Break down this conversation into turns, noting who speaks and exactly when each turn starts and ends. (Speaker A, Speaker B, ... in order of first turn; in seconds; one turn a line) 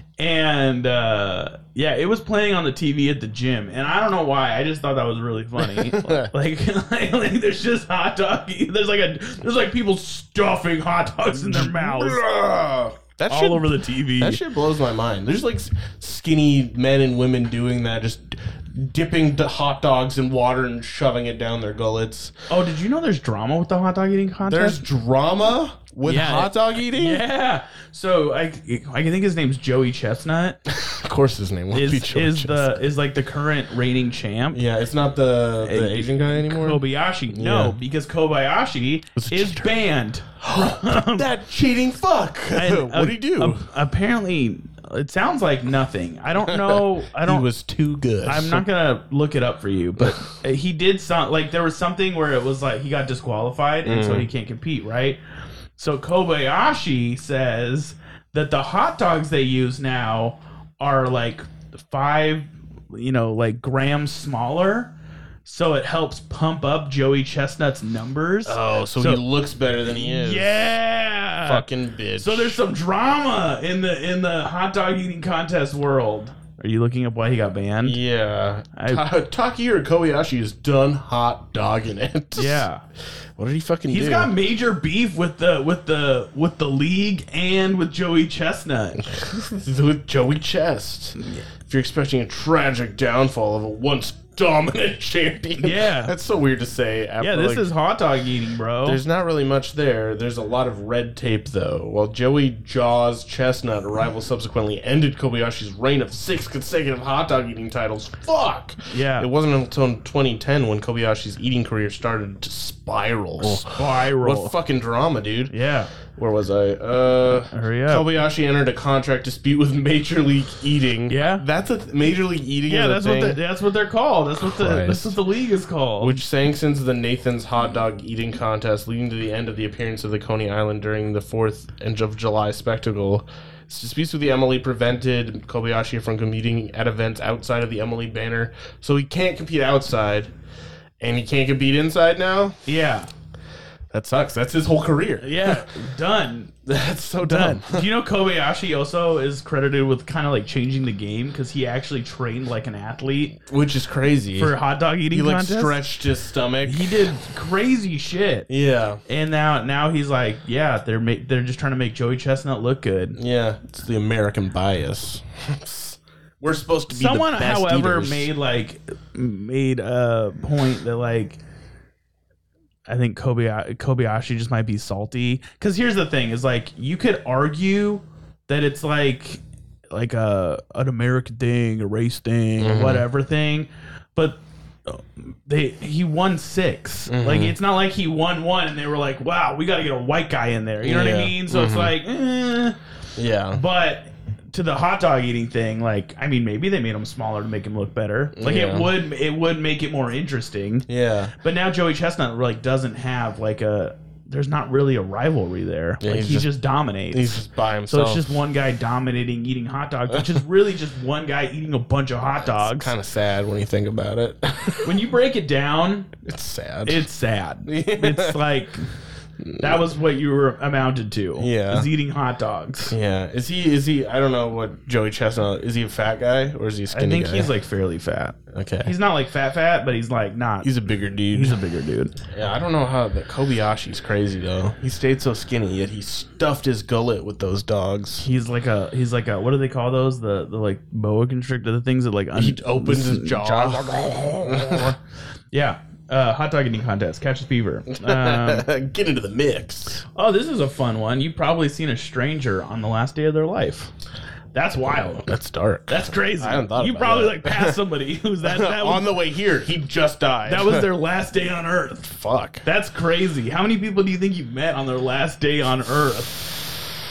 Speaker A: 0.2-12.2
Speaker B: 5.6-6.3
Speaker B: 11.3-22.3
Speaker A: 13.3-14.4
Speaker A: 22.5-24.8
Speaker B: 24.5-27.2
Speaker A: 26.0-30.6
Speaker B: 30.7-32.8
Speaker A: 31.7-34.6
Speaker B: 34.5-37.8
Speaker A: 35.6-41.3
Speaker B: 39.2-39.8
Speaker B: 40.4-43.7
Speaker A: 42.5-47.5
Speaker B: 46.4-48.6
Speaker A: 48.2-55.2
Speaker B: 50.0-50.2
Speaker B: 53.8-54.3
Speaker A: 55.8-64.9
Speaker A: 65.4-69.2
Speaker B: 68.4-70.7
Speaker A: 69.8-78.0
Speaker B: 71.4-72.6
Speaker B: 77.8-82.7
Speaker A: 78.8-79.0
Speaker A: 82.3-82.8
Speaker B: 83.3-84.3
Speaker A: 83.9-89.0
Speaker B: 89.0-97.7
Speaker A: 91.2-91.4
Speaker A: 95.6-96.1
Speaker A: 97.2-99.0
Speaker B: 98.8-115.5
Speaker A: 108.9-109.3
Speaker A: 113.4-114.5
Speaker A: 115.5-115.9
Speaker B: 116.1-123.4
Speaker A: 117.5-118.0
Speaker A: 121.1-121.4
Speaker A: 122.7-126.2
Speaker B: 124.4-125.2
Speaker B: 126.0-140.3
Speaker B: 141.0-142.6
Speaker A: 142.7-143.1
Speaker B: 143.9-145.7
Speaker A: 145.2-146.6
Speaker B: 146.7-147.9
Speaker A: 147.2-153.4
Speaker B: 153.5-154.5
Speaker A: 154.3-155.8
Speaker B: 155.1-157.1
Speaker A: 156.6-158.5
Speaker B: 158.5-159.0
Speaker A: 159.1-163.2
Speaker B: 163.2-168.3
Speaker A: 166.9-171.4
Speaker A: 172.9-179.4
Speaker A: 179.9-192.8
Speaker B: 182.6-183.1
Speaker B: 187.1-187.5
Speaker B: 190.8-191.9
Speaker B: 193.2-193.6
Speaker A: 193.5-200.9
Speaker B: 198.3-198.9
Speaker B: 200.9-201.3
Speaker A: 201.4-212.9
Speaker B: 206.0-206.5
Speaker B: 207.1-208.3
Speaker B: 212.4-214.9
Speaker A: 214.8-216.1
Speaker B: 216.2-217.1
Speaker A: 216.8-218.9
Speaker B: 217.7-218.4
Speaker B: 219.4-219.8
Speaker A: 219.6-222.9
Speaker B: 221.4-221.9
Speaker B: 222.9-227.5
Speaker A: 226.9-230.7
Speaker B: 228.5-228.9
Speaker B: 230.6-231.6
Speaker A: 231.3-232.1
Speaker B: 232.3-238.3
Speaker A: 238.2-244.9
Speaker B: 242.3-244.9
Speaker A: 245.5-248.7
Speaker B: 247.9-250.0
Speaker A: 250.1-253.9
Speaker A: 254.5-255.3
Speaker B: 254.9-257.8
Speaker A: 255.9-259.1
Speaker B: 258.4-260.9
Speaker A: 260.4-266.6
Speaker B: 262.1-262.6